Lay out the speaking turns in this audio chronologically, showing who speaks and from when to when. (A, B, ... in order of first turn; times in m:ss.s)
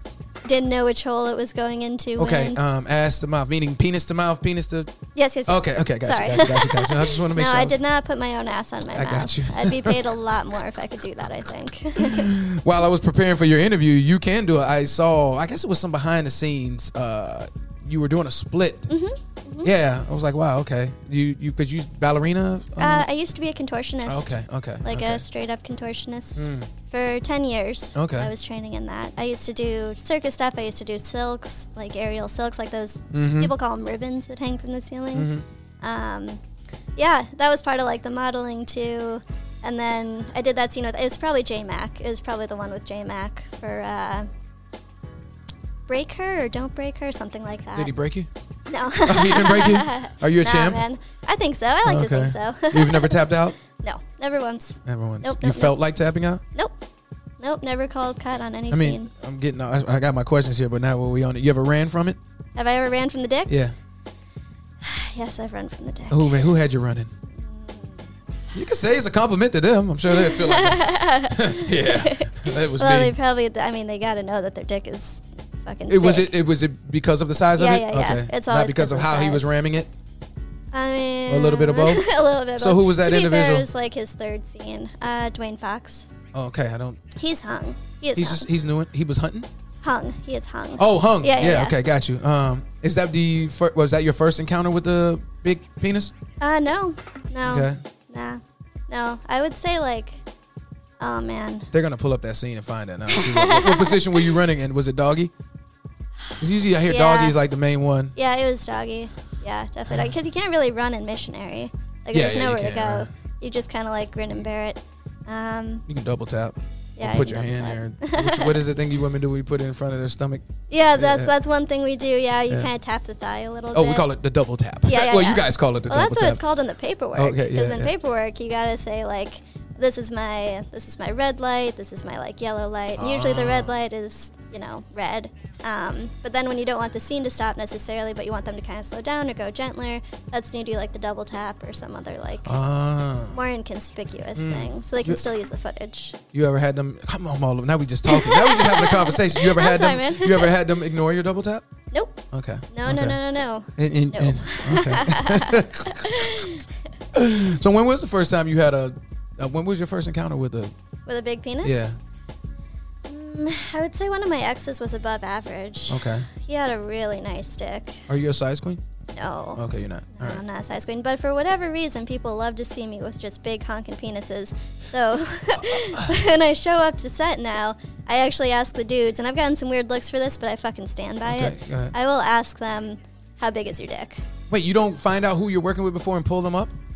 0:00.4-0:02.6 A
0:02.2-0:04.9 B
0:05.2-0:12.3 A
0:05.5-0:07.8 B
0:09.0-0:10.1 B
0:12.0-0:18.9 B
0:18.9-0:19.7 A
0:19.6-0:23.1 B
0:22.8-0:24.3 A
0:24.1-0:25.2 B
0:24.8-0:35.3 A
0:26.4-0:26.7 B
0:28.0-0:28.3 B
0:33.1-0:33.5 B
0:35.1-0:35.4 B
0:35.8-0:36.4 A
0:37.0-0:44.3 A
0:45.9-0:47.9 A
0:47.8-0:48.3 B
0:48.7-0:53.2 A
0:49.0-0:50.8 B
0:51.8-0:53.6 B
0:53.7-0:55.8 A
0:54.8-0:56.4 B
0:57.4-0:59.1 A
0:58.7-1:02.2 B
1:02.6-1:03.5 A
1:03.5-1:03.8 B
1:04.8-1:06.4 A
1:06.1-1:07.1 B
1:07.4-1:08.1 A
1:08.5-1:13.2 B
1:10.1-1:16.3 A
1:15.9-1:19.9 B
1:17.6-1:19.6 A
1:20.7-1:26.1 A
1:21.3-1:23.7 B
1:26.3-1:27.1 B
1:27.2-1:28.5 A
1:28.2-1:29.5 B
1:29.8-1:31.8 A
1:30.8-1:36.1 B
1:36.4-1:40.2 A
1:37.4-1:37.8 B
1:41.0-1:41.7 A
1:41.7-1:45.3 B
1:43.1-1:44.2 A
1:46.4-1:48.1 B
1:46.8-1:47.4 A
1:48.2-1:55.9 A
1:52.1-1:53.1 B
1:55.9-2:00.4 B
1:57.0-1:58.6 A
2:00.7-2:04.1 A
2:01.0-2:01.3 B
2:03.7-2:06.4 B
2:04.9-2:22.6 A
2:07.2-2:07.9 B
2:12.9-2:13.7 B
2:22.5-2:23.4 B
2:23.3-2:26.2 A
2:24.4-2:25.2 B
2:26.3-2:31.6 B
2:28.1-2:30.5 A
2:31.9-2:32.2 A
2:32.3-2:33.2 B
2:32.7-2:36.6 A
2:33.8-2:36.4 B
2:37.1-2:40.7 B
2:41.1-2:41.9 A
2:41.6-2:42.0 B
2:43.1-2:48.1 A
2:45.9-2:46.3 B
2:48.1-2:48.8 B
2:49.1-2:49.6 A
2:49.6-2:50.4 B
2:50.2-3:04.2 A
2:55.6-2:56.1 B
3:01.2-3:02.0 B
3:04.5-3:06.7 B